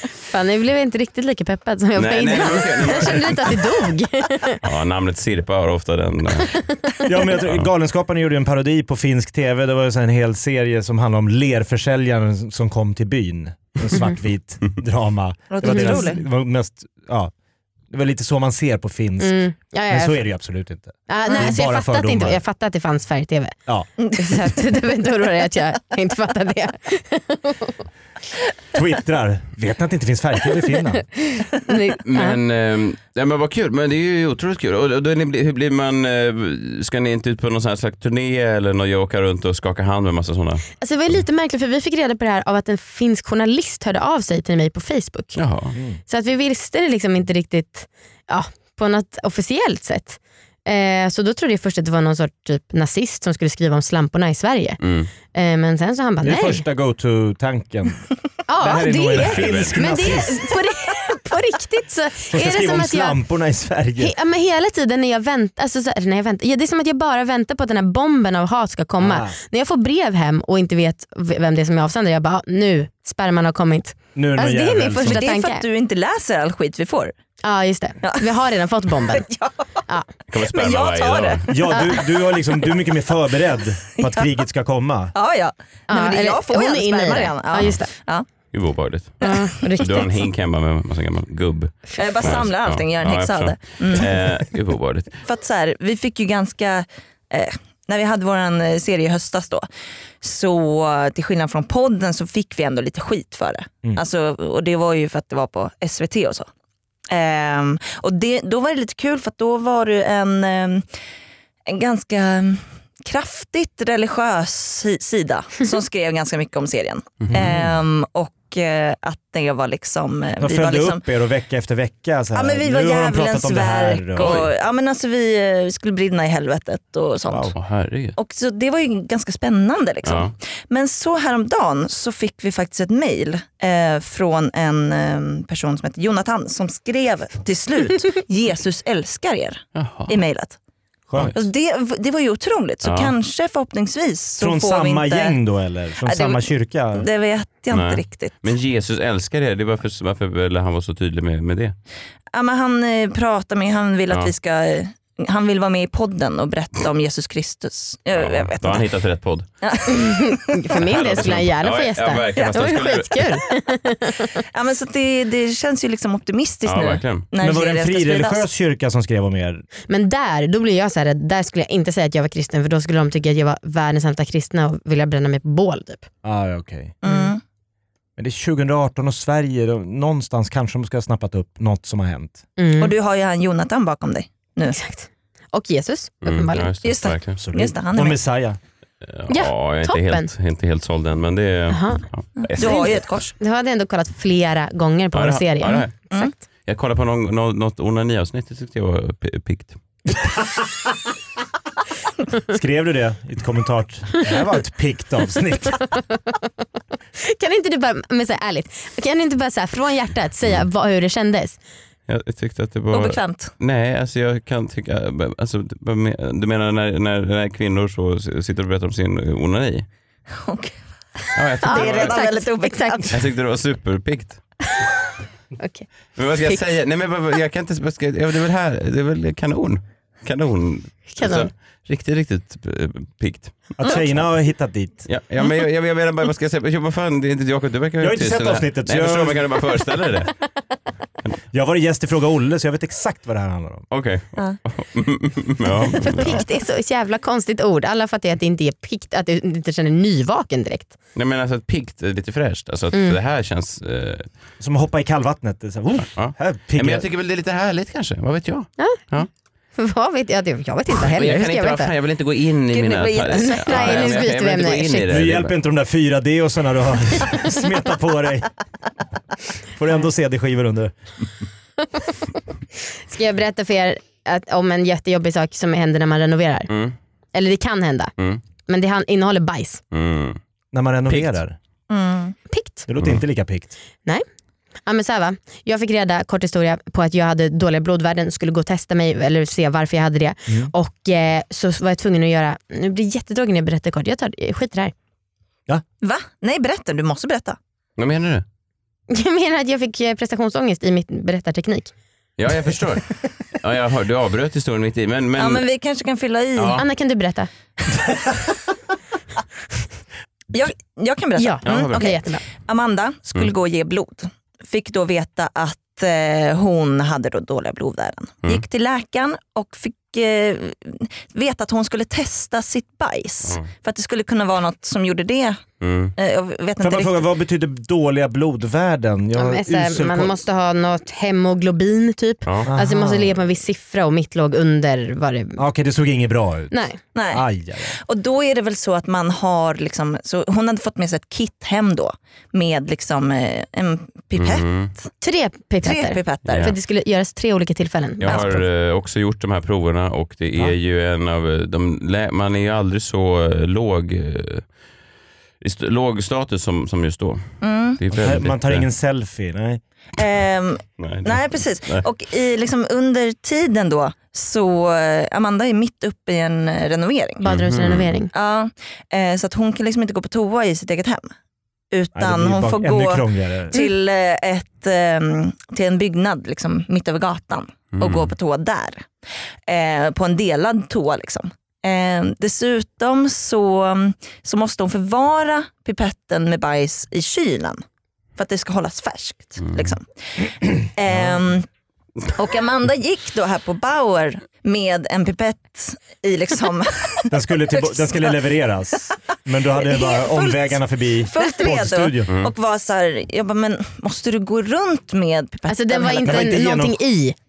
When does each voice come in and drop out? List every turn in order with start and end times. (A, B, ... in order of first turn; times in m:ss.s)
0:00.2-0:04.6 A
0:02.0-0:03.6 B
0:04.6-0:06.5 B
0:07.0-0:17.3 C
0:15.5-0:16.2 D
0:15.6-0:16.0 A
0:17.9-0:22.4 C
0:19.2-0:20.2 A
0:21.1-0:23.6 A
0:21.3-0:21.5 D
0:24.0-0:24.3 D
0:24.2-0:27.8 A
0:28.7-0:31.0 C
0:31.2-0:32.4 A
0:32.0-0:41.2 B
0:40.8-0:45.4 A
0:45.4-0:45.8 B
0:45.7-0:46.0 C
0:46.1-0:56.6 A
0:54.8-0:55.1 B
0:56.2-1:00.6 C
0:58.5-1:03.2 A
0:59.1-0:59.8 B
1:02.3-1:04.1 C
1:04.0-1:15.6 A
1:09.0-1:09.4 C
1:14.1-1:15.2 C
1:15.0-1:17.1 D
1:17.4-1:19.3 A
1:18.0-1:19.6 D
1:20.3-1:21.5 B
1:20.4-1:22.0 D
1:21.5-1:25.1 C
1:24.0-1:24.3 D
1:25.1-1:28.2 D
1:25.9-1:27.9 A
1:28.5-1:35.1 B
1:29.2-1:29.5 D
1:29.2-1:30.3 A
1:32.0-1:34.3 D
1:35.2-1:39.7 D
1:40.2-1:46.5 D
1:47.1-1:50.8 D
1:51.6-2:01.0 D
1:57.3-1:57.7 C
2:00.4-2:04.5 C
2:02.3-2:07.5 D
2:04.2-2:04.5 B
2:07.2-2:07.5 C
2:07.5-2:08.2 B
2:08.2-2:20.6 D
2:10.0-2:10.3 B
2:19.7-2:20.2 B
2:21.1-2:21.4 B
2:21.3-2:25.4 D
2:22.8-2:23.1 B
2:24.4-2:27.0 C
2:26.0-2:28.4 D
2:27.7-2:31.7 B
2:32.3-2:38.8 D
2:38.1-2:39.5 B
2:39.6-2:40.7 D
2:39.9-2:44.4 A
2:40.8-2:43.3 B
2:44.4-2:48.5 D
2:46.6-2:47.2 B
2:47.4-2:49.6 C
2:49.9-2:56.0 A
2:56.2-2:56.9 C
2:57.0-2:57.4 D
2:57.0-2:57.3 A
2:58.2-3:02.4 C
3:02.6-3:02.9 A
3:02.8-3:04.8 D
3:04.7-3:06.7 A
3:06.2-3:07.4 B
3:06.8-3:08.2 D
3:07.3-3:08.6 C
3:09.0-3:13.0 B
3:09.3-3:10.3 A
3:11.7-3:12.0 A
3:12.4-3:13.3 D
3:12.6-3:16.3 A
3:15.1-3:15.9 B
3:16.6-3:19.8 B
3:20.1-3:21.1 C
3:22.5-3:25.8 C
3:27.2-3:31.6 A
3:32.1-3:39.8 B
3:32.9-3:33.5 D
3:40.4-3:43.1 D
3:41.3-3:42.2 B
3:41.6-3:43.2 A
3:43.1-3:44.4 B
3:45.6-3:45.9 A
3:46.2-3:54.2 B
3:51.1-3:51.5 A
3:53.8-3:55.0 C
3:55.0-4:00.3 B
3:58.0-3:59.8 C
4:01.5-4:03.8 C
4:03.9-4:06.4 B
4:06.0-4:10.9 A
4:11.1-4:14.3 B
4:12.9-4:13.2 A
4:14.6-4:17.0 C
4:16.1-4:19.3 B
4:19.8-4:21.9 A
4:21.0-4:25.6 B
4:22.7-4:24.4 D
4:23.3-4:25.2 A
4:25.1-4:28.5 C
4:29.8-4:30.9 C
4:33.1-4:36.7 A
4:36.7-4:37.0 B
4:37.3-4:38.1 A
4:38.6-4:39.8 A
4:39.9-4:40.4 B
4:40.7-4:41.6 C
4:41.1-4:41.4 B
4:41.9-4:42.4 D
4:42.5-4:42.8 A
4:42.9-4:43.7 C
4:43.0-4:43.2 B
4:44.8-4:54.9 A
4:56.0-4:57.6 D
4:58.0-4:58.4 B
4:59.1-5:01.9 A
5:02.4-5:03.0 B
5:03.6-5:05.6 B
5:05.4-5:06.8 D
5:06.6-5:06.8 B
5:06.7-5:07.5 A
5:10.5-5:25.6 D
5:11.4-5:12.4 A
5:11.6-5:12.1 B
5:23.4-5:23.7 B
5:25.8-5:26.1 B
5:26.2-5:27.2 D
5:26.8-5:30.4 C
5:29.4-5:35.6 A
5:32.4-5:32.7 B
5:32.7-5:33.3 C
5:35.6-5:38.0 C
5:36.7-5:37.0 A
5:37.1-5:37.4 D
5:38.0-5:45.1 D
5:44.3-5:44.9 B
5:45.2-5:48.6 A
5:45.8-5:46.6 D
5:46.4-5:46.8 B
5:48.2-5:54.6 B
5:55.6-5:57.4 B
5:57.6-5:58.0 D
5:58.0-5:58.8 B
5:58.1-5:59.8 C
6:00.2-6:07.4 D
6:01.0-6:02.0 B
6:07.4-6:08.3 A
6:07.4-6:08.1 B
6:08.3-6:11.3 D
6:11.9-6:19.1 D
6:12.1-6:13.8 C
6:17.9-6:18.3 B
6:19.7-6:27.8 D
6:28.4-6:31.7 D
6:29.6-6:29.9 B
6:31.1-6:31.4 C
6:32.4-6:38.5 D
6:37.3-6:42.3 C
6:39.7-6:46.6 D
6:45.7-6:47.4 A
6:46.2-6:47.0 C